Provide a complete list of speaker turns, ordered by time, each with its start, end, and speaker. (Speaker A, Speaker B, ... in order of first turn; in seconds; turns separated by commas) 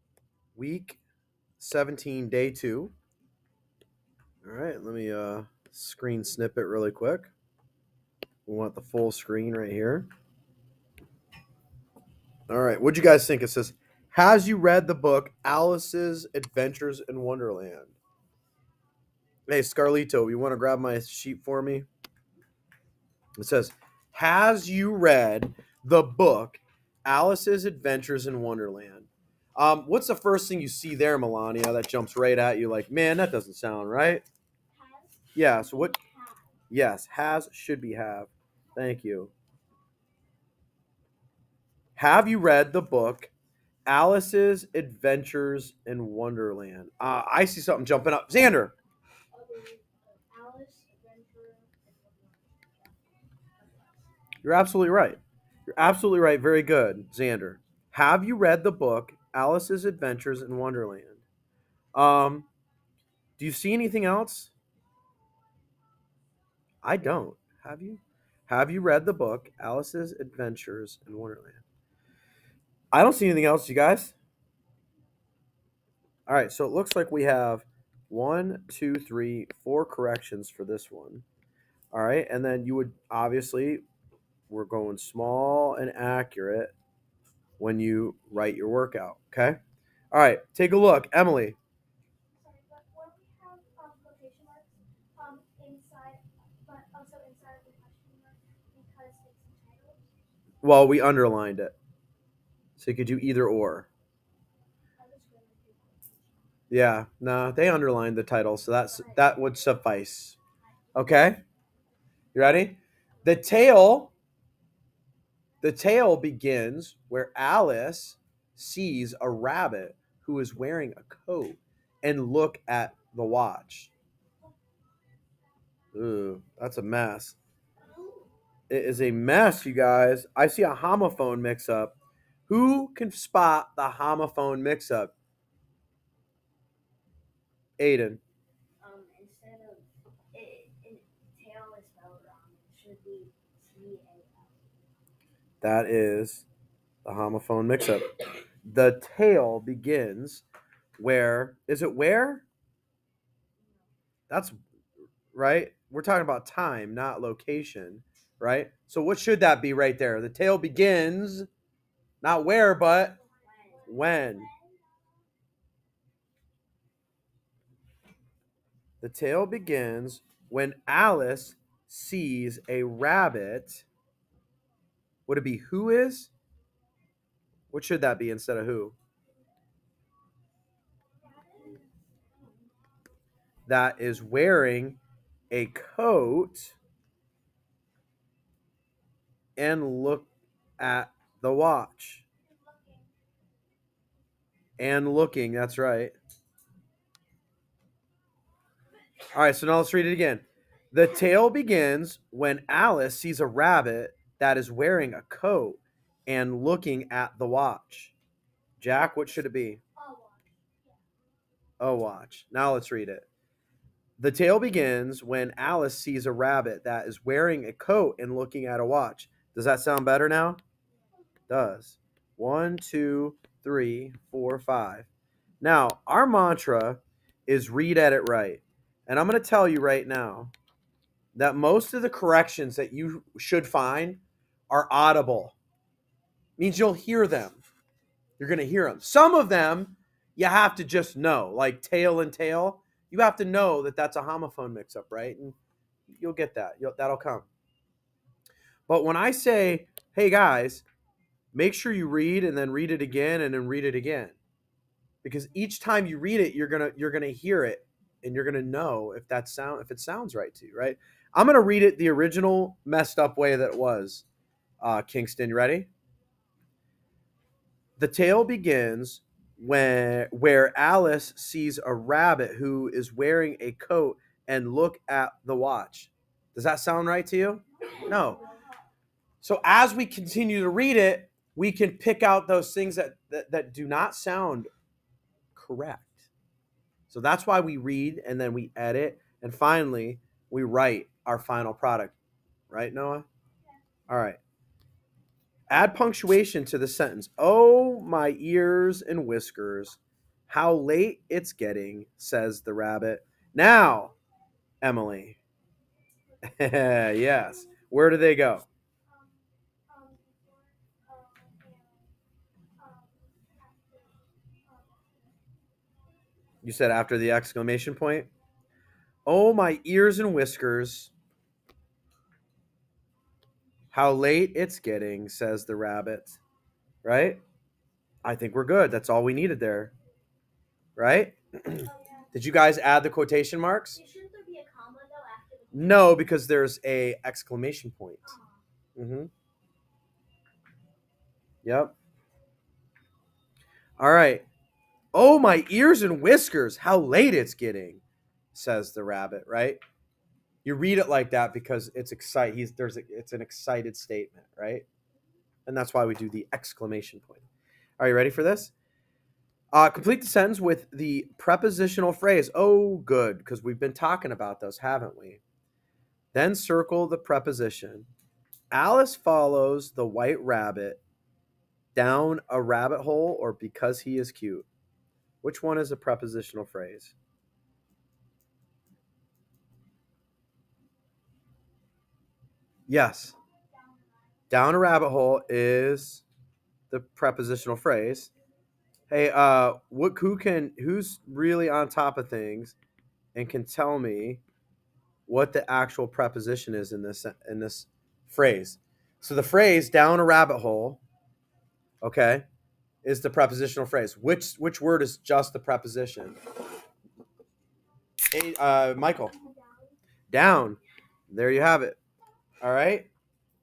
Speaker A: 0.5-1.0, Speaker A: 1.6-2.9, Speaker A: 4.4-7.3, Speaker A: 8.4-10.1, Speaker A: 12.5-17.9, Speaker A: 19.5-21.9, Speaker A: 23.4-34.2, Speaker B: 34.7-36.5, Speaker A: 35.3-36.0, Speaker A: 36.7-39.3, Speaker A: 42.0-43.3, Speaker A: 43.9-48.7, Speaker B: 49.3-53.0, Speaker B: 53.6-54.0, Speaker A: 54.4-61.2, Speaker A: 61.9-62.5, Speaker A: 63.4-64.5, Speaker A: 66.8-71.6, Speaker A: 72.9-74.1, Speaker A: 76.3-81.2, Speaker A: 81.9-83.8, Speaker A: 84.5-86.7, Speaker A: 87.6-89.6, Speaker A: 90.1-91.6, Speaker C: 92.3-100.1, Speaker A: 100.6-101.7, Speaker A: 102.8-103.9, Speaker C: 105.0-106.5, Speaker A: 106.7-110.4, Speaker C: 108.9-109.5, Speaker A: 110.9-111.4, Speaker A: 112.3-114.1, Speaker A: 115.6-123.9, Speaker A: 125.9-127.4, Speaker B: 127.9-128.3, Speaker A: 128.7-132.0, Speaker A: 132.5-135.1, Speaker A: 137.8-138.2, Speaker B: 138.8-144.7, Speaker A: 145.6-146.5, Speaker A: 147.1-148.1, Speaker A: 148.7-150.4, Speaker A: 151.0-152.4, Speaker B: 153.6-153.9, Speaker A: 154.3-154.6, Speaker A: 155.3-161.5, Speaker A: 162.2-163.2, Speaker C: 163.2-164.4, Speaker B: 163.4-164.5, Speaker A: 163.9-164.5, Speaker A: 169.0-173.9, Speaker A: 175.3-176.3, Speaker A: 177.7-178.9, Speaker A: 183.7-185.0, Speaker A: 185.5-186.8, Speaker A: 189.6-192.2, Speaker C: 192.5-193.1, Speaker A: 194.8-196.1, Speaker A: 199.3-208.1, Speaker A: 208.8-209.8, Speaker C: 210.0-210.9, Speaker A: 211.8-213.3, Speaker A: 214.2-220.6, Speaker A: 221.5-225.1, Speaker A: 225.6-230.5, Speaker A: 231.3-235.6, Speaker A: 236.6-237.6, Speaker A: 238.4-245.6, Speaker A: 246.1-247.5, Speaker A: 248.9-250.8, Speaker A: 251.5-254.4, Speaker A: 255.2-264.2, Speaker A: 264.8-265.9, Speaker A: 268.0-278.4, Speaker A: 279.4-284.7, Speaker A: 285.6-286.3, Speaker A: 287.1-292.1, Speaker A: 292.7-293.2, Speaker A: 294.1-294.4, Speaker A: 295.7-304.1, Speaker A: 304.8-305.4, Speaker A: 306.4-308.7, Speaker C: 306.6-307.4, Speaker C: 309.1-312.1, Speaker C: 312.8-315.4, Speaker A: 316.6-318.3, Speaker A: 319.2-321.1, Speaker A: 323.9-326.4, Speaker A: 327.0-327.4, Speaker A: 328.2-329.9, Speaker A: 331.0-334.0, Speaker C: 331.9-332.3, Speaker B: 334.0-336.1, Speaker A: 335.7-338.4, Speaker C: 338.2-338.6, Speaker A: 338.9-339.3, Speaker A: 341.6-341.9, Speaker A: 344.0-344.4, Speaker A: 345.1-348.0, Speaker A: 348.5-349.8, Speaker A: 350.6-354.9, Speaker A: 355.7-357.4, Speaker A: 358.0-358.7, Speaker A: 359.7-365.4, Speaker A: 366.3-368.1, Speaker A: 368.7-371.0, Speaker A: 371.9-374.7, Speaker A: 375.4-377.1, Speaker A: 382.9-383.4, Speaker A: 384.5-386.2, Speaker A: 386.9-388.3, Speaker A: 389.1-392.8, Speaker A: 393.4-394.4, Speaker A: 395.3-401.0, Speaker A: 402.0-402.4, Speaker A: 403.0-406.4, Speaker A: 408.3-409.4, Speaker C: 409.4-409.9, Speaker A: 410.3-410.8, Speaker A: 411.3-412.0, Speaker A: 412.6-413.1